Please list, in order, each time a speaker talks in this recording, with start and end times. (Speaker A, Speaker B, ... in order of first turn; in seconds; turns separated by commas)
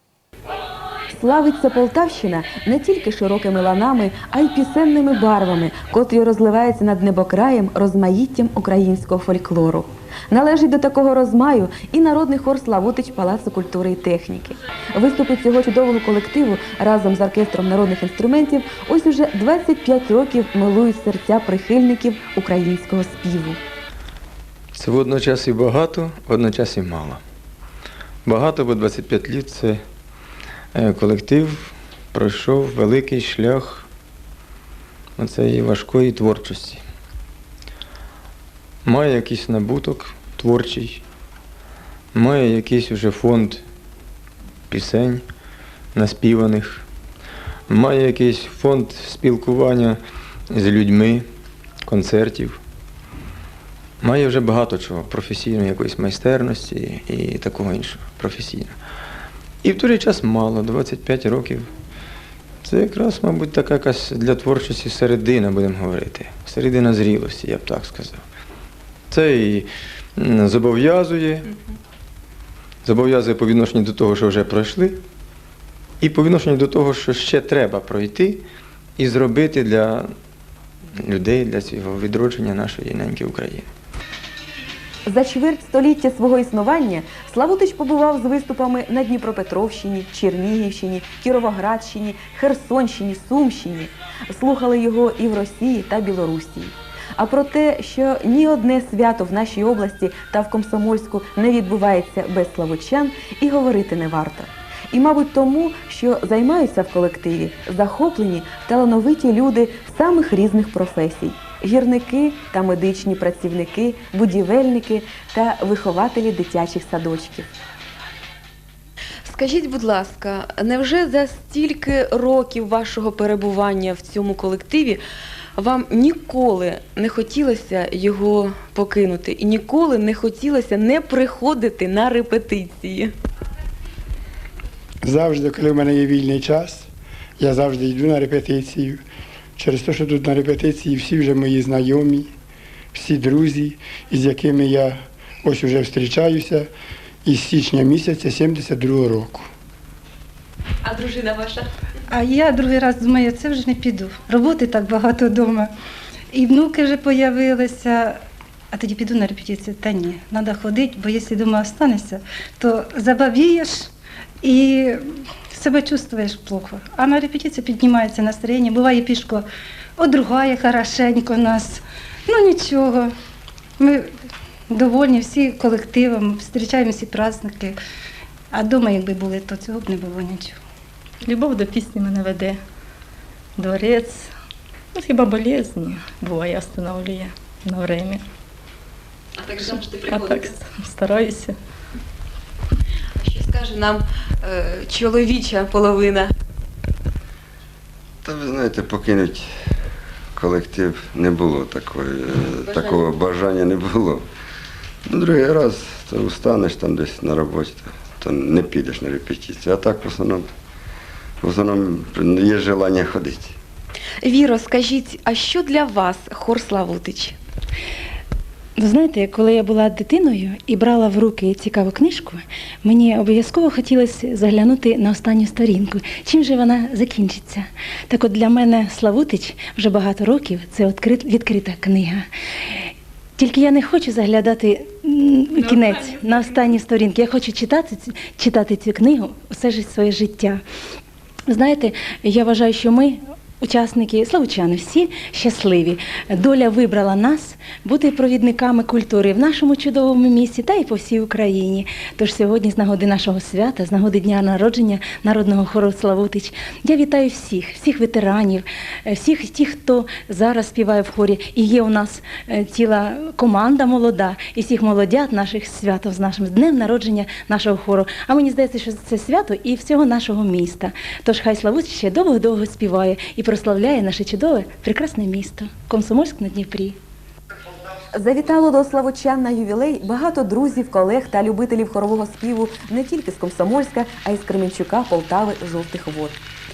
Speaker A: 1.1-23.6, Speaker B: 24.7-27.2, Speaker B: 28.2-29.8, Speaker B: 30.7-33.9, Speaker B: 35.2-36.8, Speaker B: 38.8-41.0, Speaker B: 42.1-43.6, Speaker B: 44.7-45.2, Speaker B: 45.9-46.8, Speaker B: 47.7-50.0, Speaker B: 50.5-51.2, Speaker B: 51.8-52.6, Speaker B: 54.0-58.7, Speaker B: 59.6-61.7, Speaker B: 62.6-68.2, Speaker B: 69.1-71.5, Speaker B: 72.8-75.0, Speaker B: 76.0-78.4, Speaker B: 79.0-80.1, Speaker B: 81.0-83.7, Speaker A: 85.0-117.5, Speaker A: 119.2-125.0, Speaker A: 125.6-133.1, Speaker C: 135.0-139.0, Speaker C: 139.6-142.3, Speaker C: 142.9-146.7, Speaker C: 147.2-149.5, Speaker A: 150.8-151.6, Speaker D: 152.1-155.7, Speaker D: 156.3-158.2, Speaker D: 158.7-163.9, Speaker D: 164.4-169.4, Speaker D: 170.0-173.1, Speaker D: 173.8-174.1, Speaker D: 174.7-177.8, Speaker D: 178.5-180.6, Speaker E: 181.2-182.6, Speaker E: 183.6-184.3, Speaker E: 184.9-188.2, Speaker A: 189.4-190.4, Speaker E: 189.6-191.6, Speaker A: 193.2-196.3, Speaker F: 198.2-199.5, Speaker F: 200.3-204.2, Speaker A: 202.7-203.0, Speaker F: 205.1-210.5, Speaker F: 211.4-213.6, Speaker A: 214.2-217.4, Speaker G: 218.8-240.6, Speaker G: 241.5-277.0, Speaker A: 278.1-286.4